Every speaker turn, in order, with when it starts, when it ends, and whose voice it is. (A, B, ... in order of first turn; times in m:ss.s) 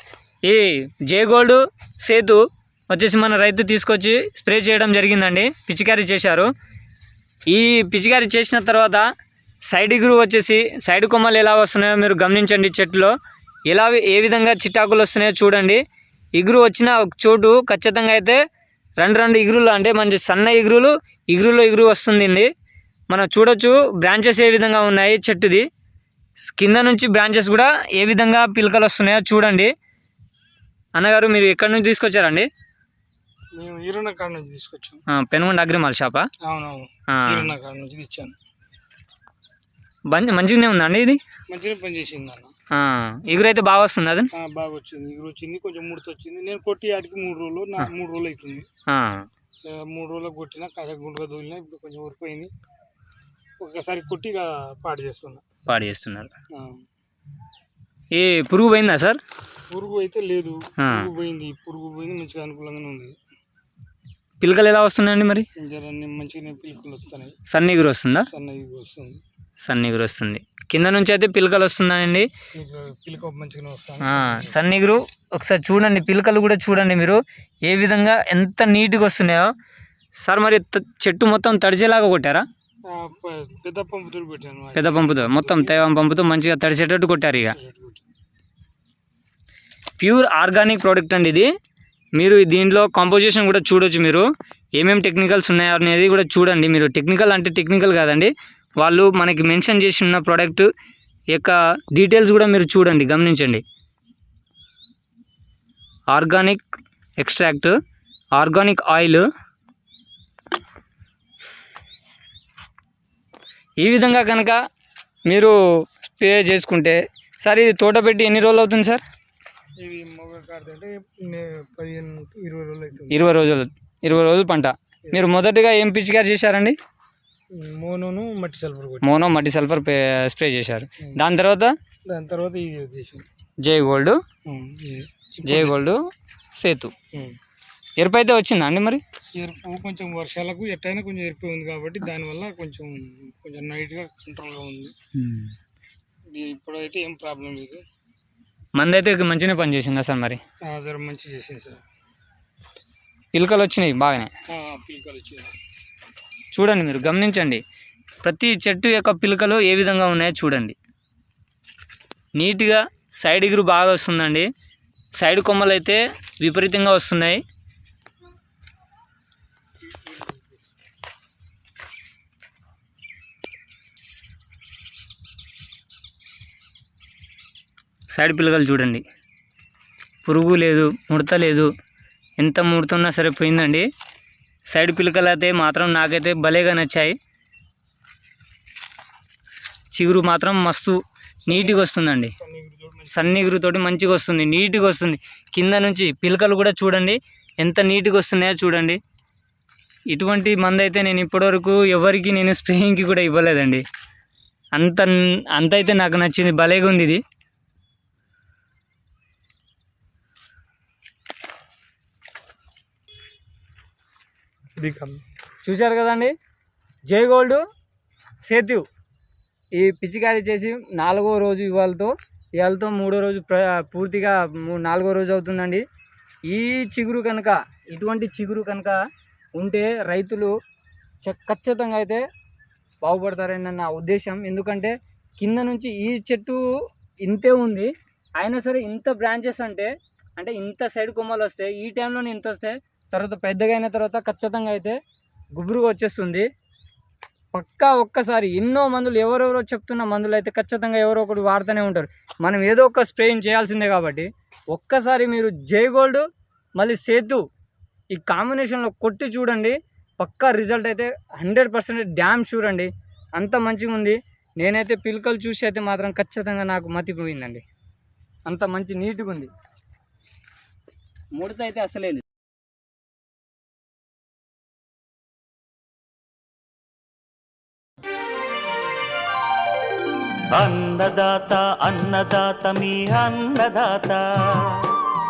0:00.4-0:06.5 A
0:07.5-0:09.0 A
0:09.7-0:13.1 A
0:13.7-0:15.8 A
0:16.4-0:18.4 A
0:19.0-0:22.5 A
0:23.1-0:25.6 A
0:26.4-0:29.7 A
0:31.0-0:32.5 A
0:33.5-0:35.0 B
0:35.1-0:36.3 A
0:36.4-0:38.3 B
0:37.1-0:37.5 A
0:40.1-0:41.2 A
0:41.5-0:42.5 B
0:42.7-0:44.3 A
0:44.3-0:48.7 B
0:48.9-0:49.3 A
0:49.6-0:52.5 B
0:53.6-0:55.4 B
0:55.6-0:56.3 A
0:56.5-0:56.8 B
0:58.1-0:59.2 A
0:59.7-1:03.2 B
1:00.8-1:01.1 A
1:04.4-1:05.5 A
1:05.6-1:07.4 B
1:07.5-1:08.3 A
1:08.3-1:09.2 B
1:09.6-1:12.3 A
1:12.5-1:14.6 B
1:14.0-1:19.5 A
1:20.2-1:22.4 A
1:22.8-1:25.8 B
1:24.7-1:27.6 A
1:27.4-1:28.0 B
1:30.0-1:31.5 A
1:32.2-1:34.2 A
1:34.8-1:40.7 A
1:41.3-1:43.6 A
1:46.1-1:47.7 A
1:48.3-1:49.3 A
1:53.8-1:54.6 A
1:55.3-1:59.0 A
1:59.8-2:03.2 B
2:03.1-2:06.8 A
2:07.5-2:09.1 B
2:09.0-2:11.7 A
2:12.0-2:13.3 B
2:13.6-2:14.2 A
2:14.4-2:15.8 B
2:15.4-2:16.0 A
2:16.6-2:16.9 A
2:18.0-2:19.0 A
2:19.3-2:24.9 B
2:25.1-2:25.5 A
2:26.3-2:27.8 B
2:28.8-2:30.4 A
2:30.6-2:31.8 B
2:33.3-2:34.3 A
2:34.5-2:35.5 B
2:36.5-2:37.6 A
2:38.2-2:40.7 A
2:42.4-2:44.5 A
2:45.2-2:47.4 A
2:58.1-2:59.0 A
3:00.2-3:01.7 A
3:02.4-3:03.9 A
3:04.7-3:07.1 A
3:09.9-3:12.3 A
3:11.4-3:13.4 B
3:13.1-3:19.0 A
3:20.1-3:23.8 A
3:24.7-3:27.2 A
3:34.8-3:35.2 B
3:35.6-3:36.3 A
3:37.1-3:37.6 A
3:38.4-3:38.8 A
3:39.7-3:45.8 A
3:46.5-3:49.0 A
3:49.6-3:50.5 A
3:51.2-3:52.2 A
3:53.0-3:56.6 A
3:57.2-4:05.0 A
4:05.5-4:06.5 A
4:07.5-4:16.2 A
4:16.8-4:17.4 A
4:18.1-4:27.6 A
4:28.5-4:29.5 A
4:31.3-4:32.2 A
4:40.5-4:45.0 C